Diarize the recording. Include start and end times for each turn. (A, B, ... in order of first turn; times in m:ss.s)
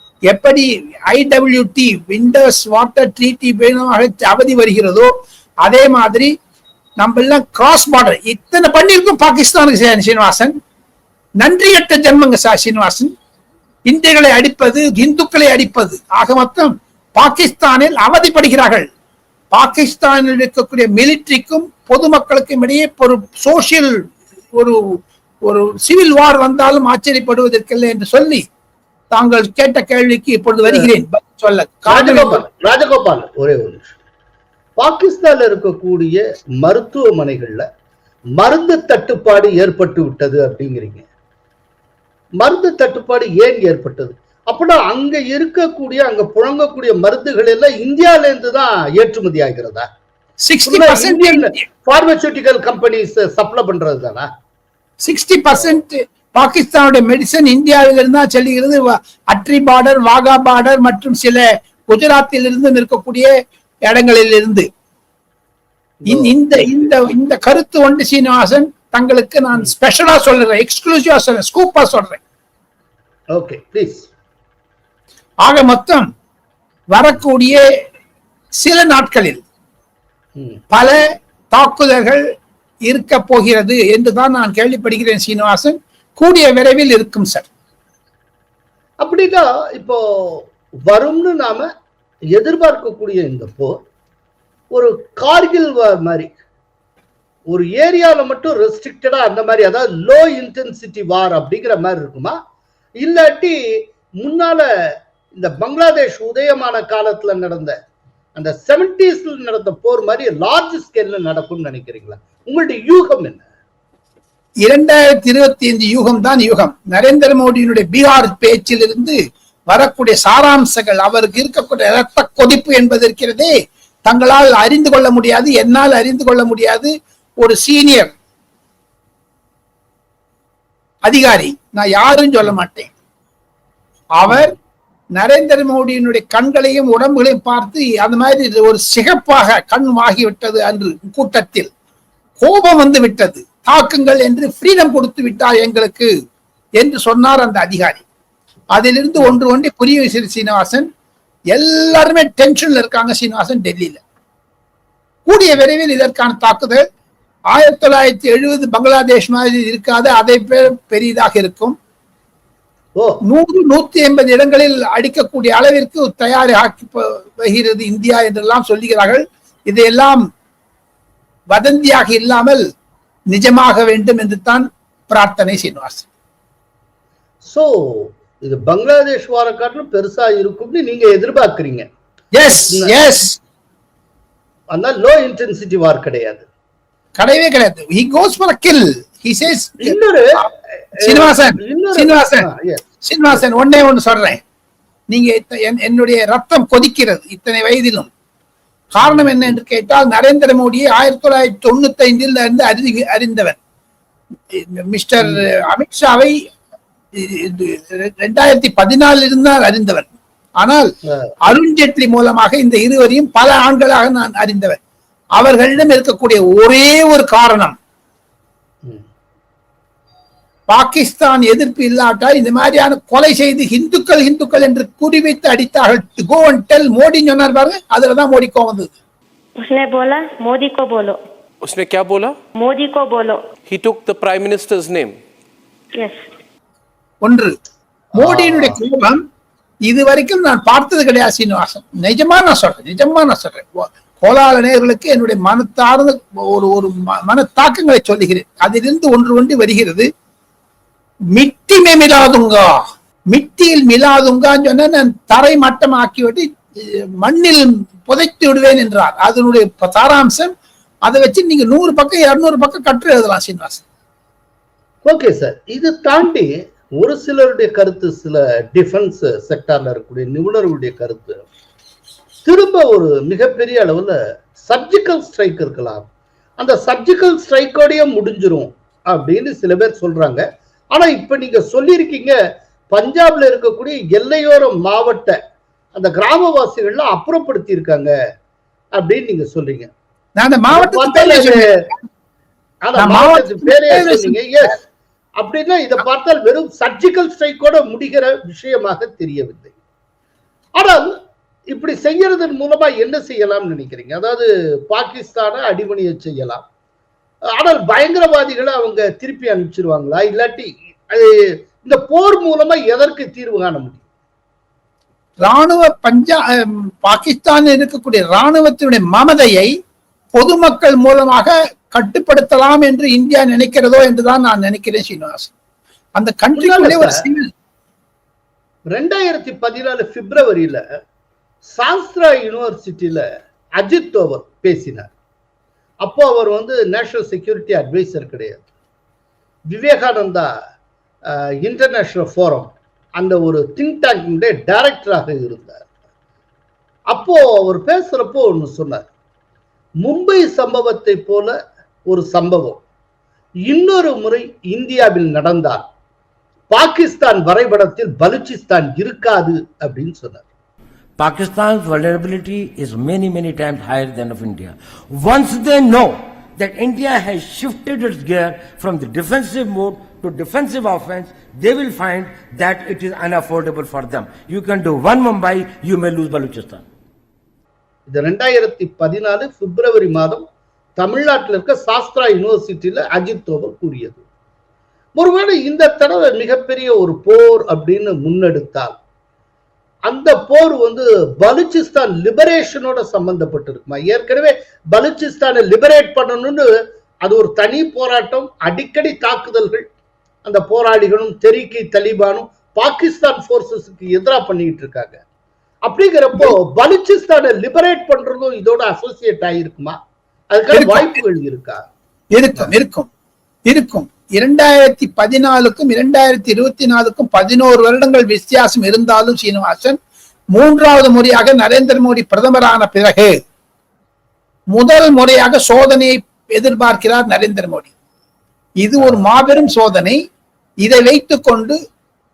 0:00.3-0:05.1 A
0:05.6-0:06.3 A
0:07.0-0:10.6 A
0:11.4-0:13.1 A
0:13.9-0:18.9 A
0:19.5-0:24.8 A
0:25.4-0:28.4 A
0:29.1-0:32.4 A
0:31.9-0:34.0 B
0:34.8-0:37.7 B
0:38.4-0:41.1 B
0:42.4-0:49.9 B
0:50.4-0:51.7 A
0:50.7-0:54.3 B
0:55.0-1:03.3 A
1:03.8-1:04.7 A
1:06.1-1:06.9 B
1:06.1-1:12.2 A
1:13.3-1:14.1 B
1:15.4-1:16.1 A
1:16.9-1:17.6 A
1:18.6-1:19.4 A
1:20.4-1:20.6 B
1:20.7-1:21.0 A
1:21.5-1:22.2 A
1:22.9-1:27.5 A
1:29.0-1:31.7 B
1:32.3-1:33.8 B
1:34.7-1:36.3 B
1:37.5-1:42.4 B
1:43.0-1:44.7 B
1:45.4-1:47.8 B
1:48.4-1:53.4 B
1:54.6-1:59.2 A
1:59.7-2:03.5 A
2:04.1-2:08.1 A
2:11.0-2:12.9 A
2:14.2-2:14.6 A
2:14.3-2:14.5 B
2:15.2-2:21.7 A
2:22.4-2:26.1 A
2:26.8-2:28.0 A
2:28.7-2:30.9 A
2:31.5-2:34.0 A
2:35.3-2:36.8 A
2:37.5-2:41.8 A
2:43.0-2:43.2 B
2:43.3-2:50.2 A
2:51.5-2:52.6 A
2:53.3-2:56.1 A
2:57.4-3:01.9 B
3:02.3-3:03.4 A
3:02.7-3:03.0 B
3:04.7-3:06.5 B
3:07.2-3:10.4 A
3:09.8-3:10.4 B
3:11.0-3:13.4 B
3:11.0-3:12.5 A
3:13.0-3:14.4 A
3:15.1-3:18.1 A
3:19.0-3:23.6 A
3:19.0-3:19.5 B
3:24.5-3:26.4 A
3:27.2-3:30.1 A
3:30.6-3:30.9 A
3:31.1-3:31.5 B
3:31.4-3:34.8 A
3:35.4-3:37.8 A
3:40.7-3:49.0 A
3:49.6-3:51.2 C
3:51.6-3:52.4 D
3:52.6-3:53.4 C
3:53.6-3:55.2 D
3:56.0-3:56.2 C
3:57.2-3:57.6 A
3:58.2-3:58.8 B
3:58.2-3:59.2 A
3:59.9-4:10.1 A
4:11.3-4:20.5 A
4:21.0-4:23.8 A
4:25.0-4:31.4 B
4:32.4-4:36.1 B
4:36.6-4:42.4 B
4:42.9-4:45.4 B
4:46.0-4:48.1 B
4:49.0-4:49.9 B
4:50.4-4:51.9 A
4:50.7-4:51.6 B
4:52.8-4:54.8 B
4:53.0-4:54.4 A
4:55.4-4:59.7 B
5:00.8-5:01.1 B
5:01.7-5:06.6 B
5:07.6-5:14.0 B
5:15.4-5:19.7 A
5:20.3-5:25.5 A
5:26.2-5:27.5 A
5:26.6-5:27.2 B
5:28.9-5:30.8 B
5:31.7-5:33.2 B
5:33.8-5:35.1 B
5:36.0-5:38.6 B
5:39.7-5:40.5 B
5:41.3-5:45.9 B
5:47.1-5:49.1 B
5:50.0-5:51.6 B
5:52.1-5:52.8 B
5:53.7-5:55.8 B
5:56.7-6:00.4 B
6:01.2-6:16.8 E
6:18.1-6:20.4 B
6:21.0-6:24.2 B
6:25.2-6:29.0 B
6:30.1-6:36.7 B
6:37.2-6:39.9 B
6:40.4-6:45.2 B
6:45.8-6:50.0 B
6:50.5-6:51.8 B
6:50.7-6:51.2 A
6:52.3-6:53.1 A
6:53.7-7:00.0 A
7:00.5-7:03.4 A
7:04.7-7:07.9 A
7:08.8-7:10.2 A
7:10.8-7:11.8 A